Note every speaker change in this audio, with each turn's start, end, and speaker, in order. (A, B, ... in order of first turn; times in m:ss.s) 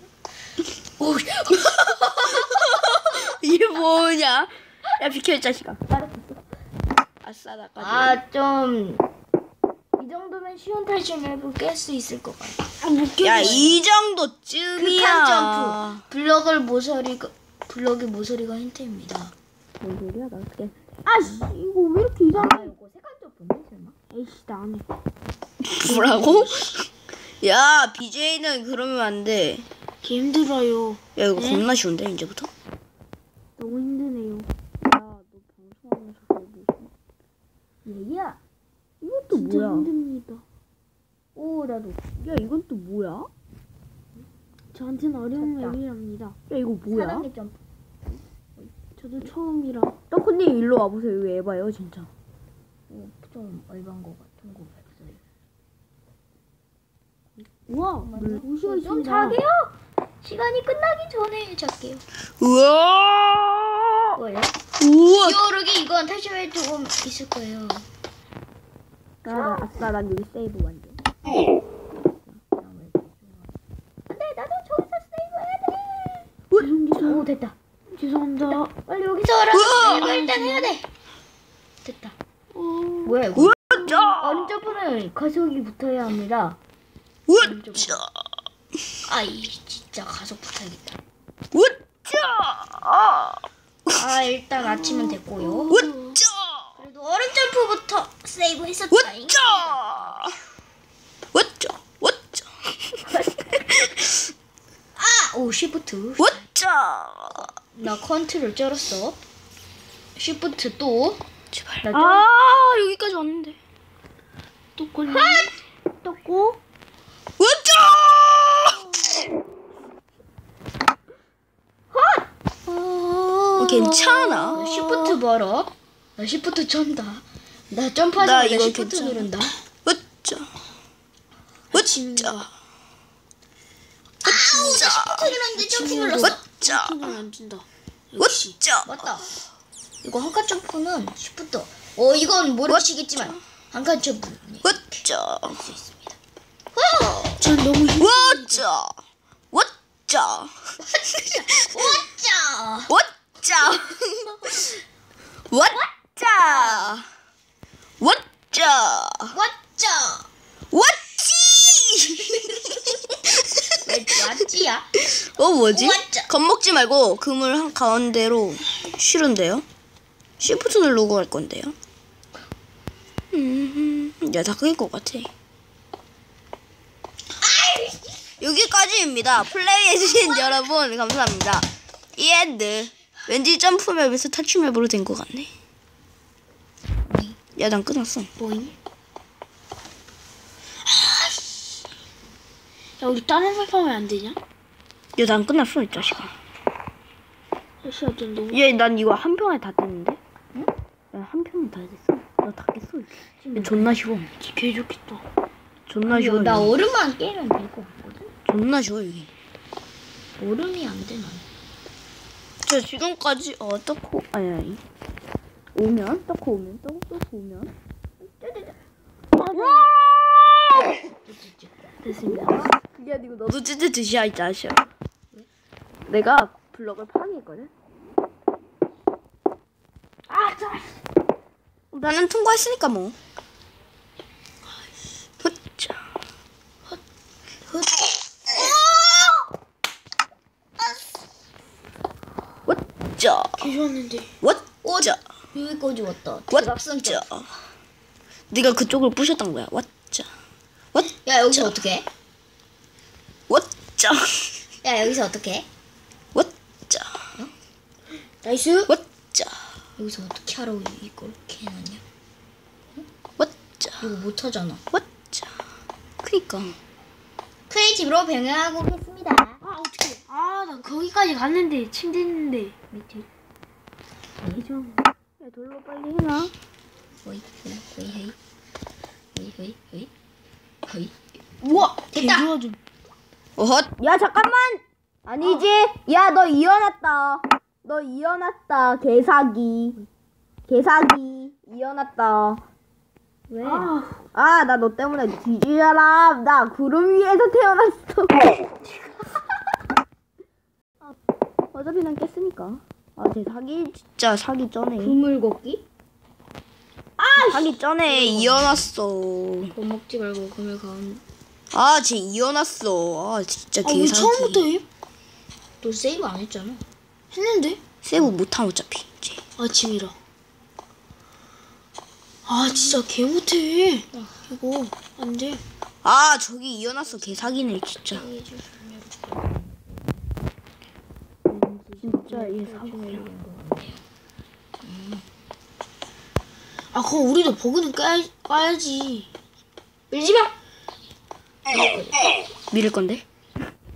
0:01.0-0:01.8 A
0:01.5-0:06.1 B
0:07.2-0:08.2 B
0:07.8-0:09.0 A
0:10.0-0:12.7 A
0:12.8-0:13.8 C
0:13.2-0:16.0 B
0:13.4-0:13.7 A
0:14.8-0:19.3 A
0:19.8-0:22.7 B
0:21.2-0:21.5 A
0:22.3-0:24.0 A
0:24.1-0:24.9 C
0:25.6-0:29.7 B
0:25.8-0:26.5 C
0:30.0-0:31.7 C
0:31.2-0:32.5 B
0:33.6-0:34.5 C
0:34.8-0:36.9 B
0:37.8-0:38.4 A
0:39.0-0:39.9 B
0:39.3-0:40.4 C
0:41.4-0:42.0 A
0:42.2-0:43.3 B
0:44.7-0:46.4 C
0:45.4-0:45.8 A
0:46.5-0:47.3 B
0:46.9-0:47.6 A
0:49.0-0:50.0 C
0:50.1-0:52.1 B
0:52.9-0:55.2 A
0:57.7-0:59.4 C
0:58.0-1:02.0 A
1:02.4-1:04.2 B
1:04.2-1:04.6 A
1:04.8-1:05.4 B
1:05.1-1:07.8 A
1:09.2-1:11.0 B
1:09.3-1:09.7 A
1:12.4-1:13.5 A
1:14.1-1:16.3 A
1:16.5-1:17.2 B
1:16.6-1:17.2 C
1:16.9-1:17.6 A
1:18.0-1:18.7 C
1:18.5-1:20.9 A
1:19.5-1:20.1 B
1:19.8-1:20.7 C
1:21.8-1:22.2 A
1:22.6-1:23.2 C
1:23.0-1:26.6 A
1:23.4-1:24.6 B
1:27.3-1:28.1 B
1:27.4-1:28.0 A
1:29.1-1:31.0 A
1:31.5-1:34.0 B
1:33.9-1:35.8 A
1:35.7-1:36.2 C
1:35.7-1:36.6 B
1:36.8-1:40.2 A
1:38.9-1:40.3 B
1:41.3-1:44.2 B
1:45.0-1:46.4 A
1:46.2-1:47.5 B
1:47.4-1:49.2 A
1:50.2-1:51.2 A
1:51.5-1:53.6 B
1:51.8-1:52.3 A
1:54.8-1:56.6 C
1:55.0-1:55.5 A
1:57.4-1:58.9 B
2:01.9-2:09.6 A
2:03.6-2:05.2 B
2:08.2-2:09.3 B
2:09.8-2:10.5 B
2:11.7-2:12.5 C
2:11.7-2:12.4 B
2:14.2-2:16.4 A
2:14.3-2:15.3 B
2:14.3-2:18.6 C
2:16.2-2:17.1 B
2:18.2-2:18.9 B
2:18.9-2:19.3 A
2:20.0-2:25.0 A
2:22.7-2:23.4 B
2:24.6-2:25.6 B
2:25.6-2:26.2 A
2:26.7-2:27.5 A
2:27.4-2:28.7 C
2:28.0-2:28.9 B
2:29.5-2:30.5 B
2:31.1-2:31.8 B
2:31.2-2:32.9 A
2:32.9-2:34.8 B
2:35.5-2:37.1 B
2:35.7-2:37.0 A
2:38.0-2:39.4 B
2:39.3-2:40.3 A
2:40.7-2:43.7 B
2:43.8-2:44.9 A
2:45.2-2:49.6 B
2:45.6-2:46.3 A
2:50.4-2:51.8 B
2:53.3-2:55.3 B
2:57.4-2:58.2 A
2:58.4-3:05.5 B
3:07.1-3:07.4 A
3:07.5-3:08.3 B
3:08.4-3:08.8 C
3:11.1-3:11.3 C
3:13.0-3:14.4 C
3:15.2-3:16.4 B
3:17.8-3:18.6 C
3:18.5-3:20.2 B
3:21.1-3:24.4 B
3:23.4-3:24.0 A
3:24.4-3:25.2 C
3:25.9-3:26.7 B
3:26.1-3:28.3 A
3:28.5-3:29.3 B
3:30.4-3:31.4 A
3:32.7-3:34.8 B
3:35.8-3:37.7 B
3:38.4-3:38.8 A
3:39.4-3:39.9 C
3:39.4-3:40.9 B
3:41.0-3:42.7 A
3:42.0-3:42.7 C
3:42.4-3:44.8 B
3:46.1-3:47.7 B
3:50.3-3:50.9 C
3:51.9-3:53.2 B
3:55.4-3:56.0 B
4:02.7-4:03.6 B
4:03.6-4:04.3 C
4:04.4-4:05.2 B
4:04.8-4:07.2 A
4:06.5-4:07.5 B
4:08.5-4:10.3 B
4:10.9-4:11.7 B
4:11.2-4:12.1 A
4:13.5-4:14.5 B
4:14.8-4:15.7 A
4:16.3-4:17.2 B
4:18.4-4:18.9 A
4:18.9-4:19.6 B
4:20.0-4:22.0 A
4:23.4-4:24.0 B
4:24.0-4:24.8 A
4:24.9-4:25.5 B
4:26.2-4:26.8 B
4:27.7-4:29.6 A
4:29.6-4:32.7 C
4:32.9-4:33.3 A
4:34.5-4:34.9 A
4:35.4-4:36.5 B
4:37.2-4:38.4 A
4:39.3-4:40.1 A
4:40.9-4:41.1 A
4:41.6-4:42.8 C
4:41.7-4:42.5 A
4:43.6-4:50.0 B
4:45.4-4:45.7 C
4:50.7-4:52.6 B
4:53.5-4:53.9 A
4:53.6-4:54.2 C
4:54.4-4:58.6 B
5:01.7-5:05.2 B
5:05.0-5:05.8 A
5:07.2-5:09.7 B
5:07.4-5:08.9 A
5:09.8-5:11.2 A
5:11.7-5:14.7 B
5:13.8-5:14.8 C
5:15.8-5:16.8 A
5:17.3-5:17.8 C
5:18.0-5:19.4 B
5:19.6-5:20.2 C
5:22.5-5:24.0 C
5:22.7-5:23.0 A
5:24.1-5:24.9 A
5:25.0-5:25.6 C
5:26.0-5:28.2 B
5:27.0-5:30.2 A
5:31.5-5:31.9 C
5:32.0-5:34.0 A
5:32.0-5:33.2 B
5:34.8-5:35.3 A
5:36.9-5:39.3 C
5:40.1-5:40.5 A
5:41.7-5:42.2 A
5:42.7-5:43.2 B